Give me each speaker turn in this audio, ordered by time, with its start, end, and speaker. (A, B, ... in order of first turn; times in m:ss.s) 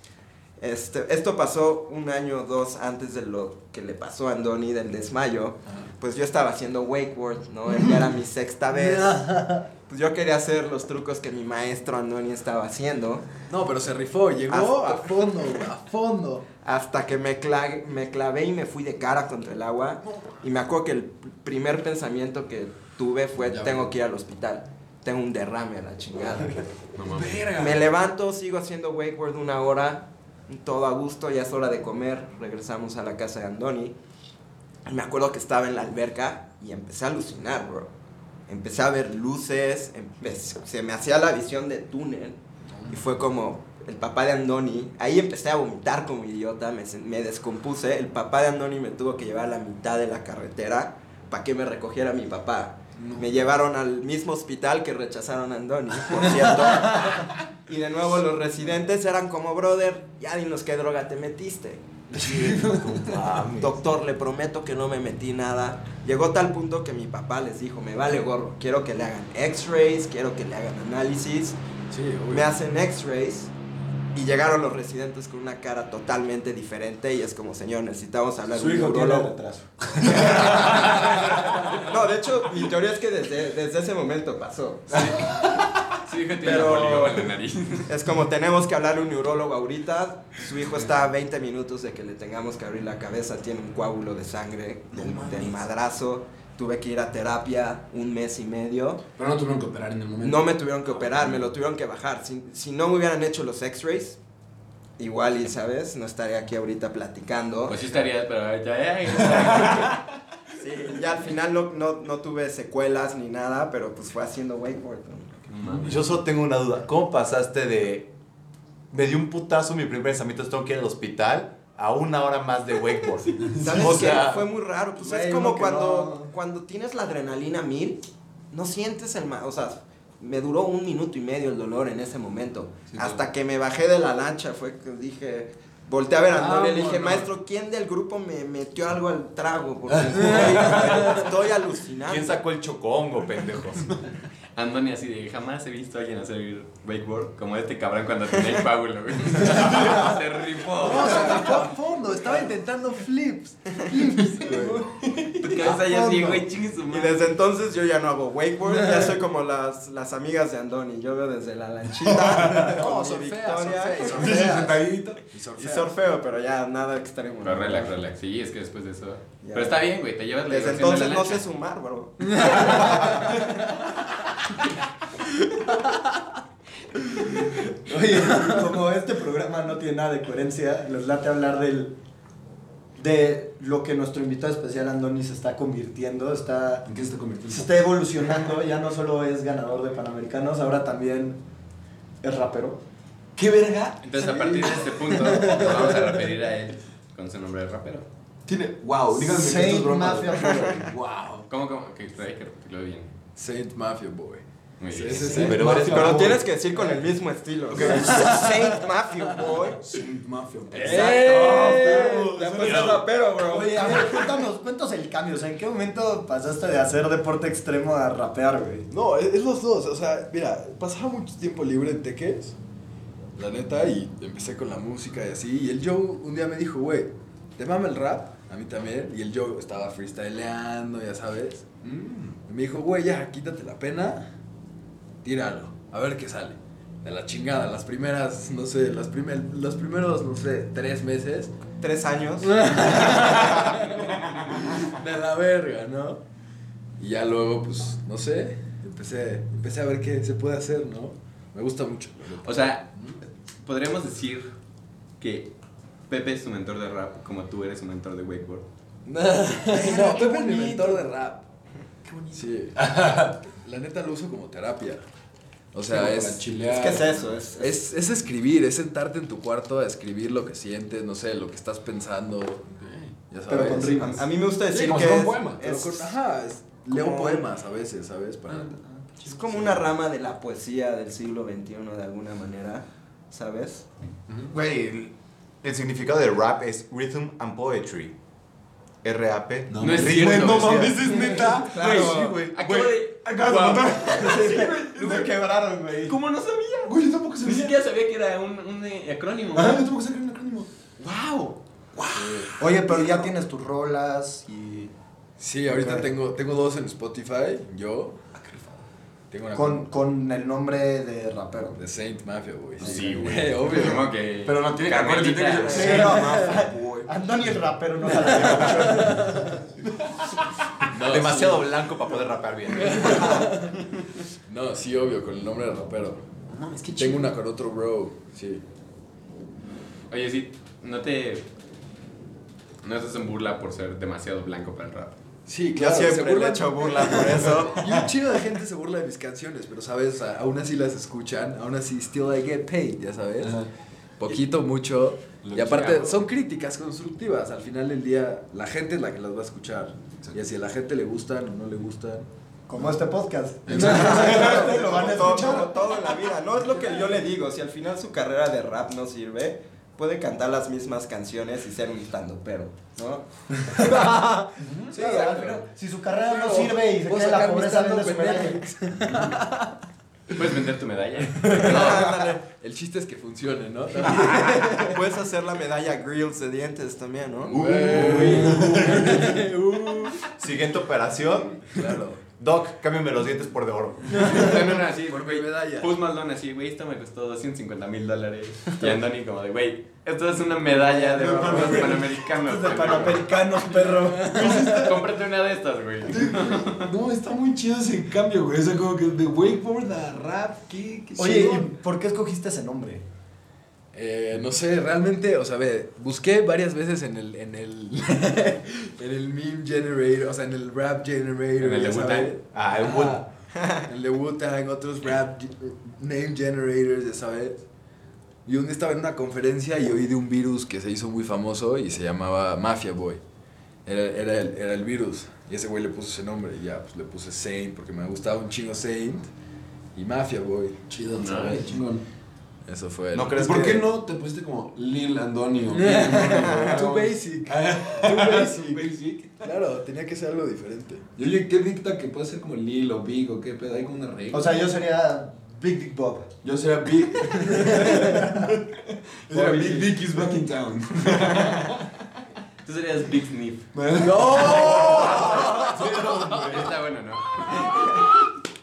0:00.6-0:09.2 A
0:08.7-0:09.7 B
0:09.9-0:13.2 A
0:13.5-0:16.4 B
0:14.5-0:15.2 A
0:16.6-0:26.7 A
0:23.4-0:23.9 B
0:27.0-0:27.4 C
0:27.1-0:27.8 D
0:27.5-0:33.9 A
0:34.8-0:37.9 A
0:38.5-0:42.4 A
0:42.7-0:43.0 D
0:42.9-1:01.8 A
1:02.1-1:03.2 D
1:02.2-1:03.2 B
1:03.0-1:03.7 E
1:03.6-1:11.6 A
1:11.9-1:12.5 B
1:12.3-1:13.5 A
1:14.1-1:19.4 A
1:18.6-1:19.3 D
1:19.8-1:21.8 D
1:20.2-1:20.5 A
1:21.8-1:25.2 A
1:24.9-1:25.7 D
1:26.0-1:27.9 C
1:26.4-1:27.3 A
1:27.9-1:39.0 A
1:35.0-1:35.5 D
1:39.2-1:41.4 D
1:40.2-1:44.2 A
1:45.0-1:47.8 A
1:47.7-1:50.0 C
1:50.6-1:55.4 A
1:55.5-1:56.0 C
1:55.8-1:58.1 E
1:58.9-2:04.3 E
2:03.4-2:03.8 D
2:03.6-2:22.4 A
2:03.7-2:04.4 B
2:05.0-2:06.3 F
2:12.9-2:13.2 D
2:16.3-2:17.3 B
2:19.9-2:21.0 D
2:20.2-2:21.0 B
2:22.0-2:23.9 E
2:24.6-2:31.7 C
2:30.8-2:34.9 B
2:34.4-2:34.7 F
2:35.0-2:35.4 D
2:35.4-2:37.2 C
2:35.6-2:36.4 B
2:36.9-2:44.3 A
2:42.1-2:42.8 D
2:42.6-2:45.9 B
2:44.0-2:45.2 D
2:44.2-2:44.8 F
2:45.6-2:48.0 A
2:47.4-2:51.4 C
2:49.4-2:49.8 A
2:50.5-2:53.2 A
2:57.4-3:01.9 F
3:03.0-3:06.8 F
3:06.8-3:07.7 D
3:07.5-3:11.4 F
3:12.2-3:12.8 F
3:13.4-3:15.7 D
3:14.0-3:18.1 C
3:14.2-3:15.8 B
3:18.5-3:21.4 D
3:19.1-3:20.9 F
3:20.4-3:20.7 A
3:21.5-3:23.1 C
3:23.4-3:25.8 B
3:24.8-3:25.6 C
3:25.1-3:26.9 D
3:25.3-3:26.4 E
3:25.8-3:29.8 A
3:27.7-3:28.5 D
3:27.7-3:28.8 B
3:29.8-3:33.1 D
3:30.7-3:33.0 B
3:30.8-3:34.1 A
3:33.4-3:38.9 F
3:38.9-3:42.6 B
3:43.4-3:51.6 B
3:51.8-3:52.4 D
3:52.5-3:54.3 B
3:55.2-4:01.5 B
4:01.8-4:03.3 A
4:02.4-4:06.2 B
4:04.2-4:04.7 D
4:07.0-4:13.2 B
4:12.4-4:12.9 C
4:13.6-4:14.5 C
4:15.2-4:15.5 C
4:16.1-4:18.7 C
4:19.0-4:21.4 B
4:19.8-4:20.6 D
4:22.3-4:25.0 B
4:22.8-4:23.3 D
4:25.7-4:26.4 B
4:25.9-4:27.2 D
4:26.6-4:27.8 A
4:27.6-4:32.7 B
4:32.8-4:33.1 D
4:33.3-4:34.2 B
4:33.5-4:34.2 F
4:34.0-4:36.1 A
4:34.7-4:35.8 D
4:35.6-4:38.8 B
4:36.9-4:37.4 A
4:39.2-4:43.8 A
4:39.3-4:39.7 D
4:44.5-4:45.1 E
4:45.6-4:48.1 E
4:49.0-4:52.6 E
4:49.7-4:55.3 D
4:49.8-4:54.6 C
4:51.5-4:52.4 A
4:54.1-4:54.8 F
4:55.0-4:56.1 A
4:56.0-4:59.8 C
4:56.8-4:57.8 D
4:59.5-5:00.7 D
5:01.0-5:01.6 C
5:01.9-5:03.2 D
5:02.1-5:02.5 B
5:02.6-5:04.9 F
5:05.4-5:08.2 B
5:05.7-5:06.0 F
5:08.3-5:08.8 D
5:09.3-5:09.9 B
5:09.5-5:11.8 F
5:11.8-5:14.1 B
5:12.8-5:16.0 C
5:14.4-5:16.5 D
5:15.6-5:19.5 F
5:15.7-5:17.1 A
5:16.2-5:16.5 B
5:18.1-5:19.0 D
5:18.9-5:19.6 B
5:19.8-5:20.2 D
5:20.9-5:21.7 B
5:21.0-5:23.5 E
5:22.8-5:23.8 B
5:24.5-5:26.2 B
5:26.5-5:27.0 C
5:26.8-5:27.2 D
5:26.9-5:28.6 B
5:30.1-5:31.4 C
5:32.8-5:35.2 C
5:35.5-5:43.6 B
5:35.7-5:37.9 A
5:43.4-5:43.7 D
5:44.2-5:52.3 B
5:45.4-5:46.2 D
5:52.7-5:55.8 F
5:53.7-5:55.5 D
5:53.7-5:54.8 B
5:53.8-6:03.2 A
6:03.8-6:08.6 F
6:03.9-6:04.2 B
6:04.6-6:04.9 D
6:04.9-6:05.6 B
6:06.1-6:09.7 B
6:10.3-6:12.1 C
6:11.4-6:15.0 B
6:11.6-6:12.4 A
6:14.2-6:17.7 A
6:17.5-6:20.2 B
6:17.5-6:19.0 E
6:17.8-6:19.4 D
6:18.0-6:18.5 C
6:20.2-6:21.7 E
6:21.7-6:22.2 B
6:22.4-6:24.5 E
6:24.1-6:26.0 B
6:24.2-6:33.7 C
6:30.9-6:34.7 F
6:31.1-6:31.7 B
6:31.2-6:32.1 D
6:34.0-6:34.9 B
6:34.3-6:35.1 D
6:34.4-6:36.9 C
6:36.0-6:41.7 D
6:41.2-6:43.0 F
6:43.9-6:53.3 B
6:51.6-6:52.3 C
6:52.5-6:53.2 E
6:53.8-6:57.6 B
6:58.4-7:03.2 B
7:03.8-7:09.3 B
7:09.9-7:10.9 B
7:10.9-7:12.0 D
7:11.2-7:11.7 C
7:12.6-7:13.8 B
7:13.1-7:13.8 E
7:13.4-7:19.5 D
7:15.7-7:21.0 B
7:21.2-7:24.6 D
7:24.3-7:26.3 F
7:26.4-7:31.9 D
7:27.6-7:28.0 B
7:28.0-7:28.4 F
7:29.4-7:29.9 C
7:32.6-7:33.7 C
7:33.7-7:36.7 D
7:34.0-7:36.2 B
7:34.4-7:37.8 C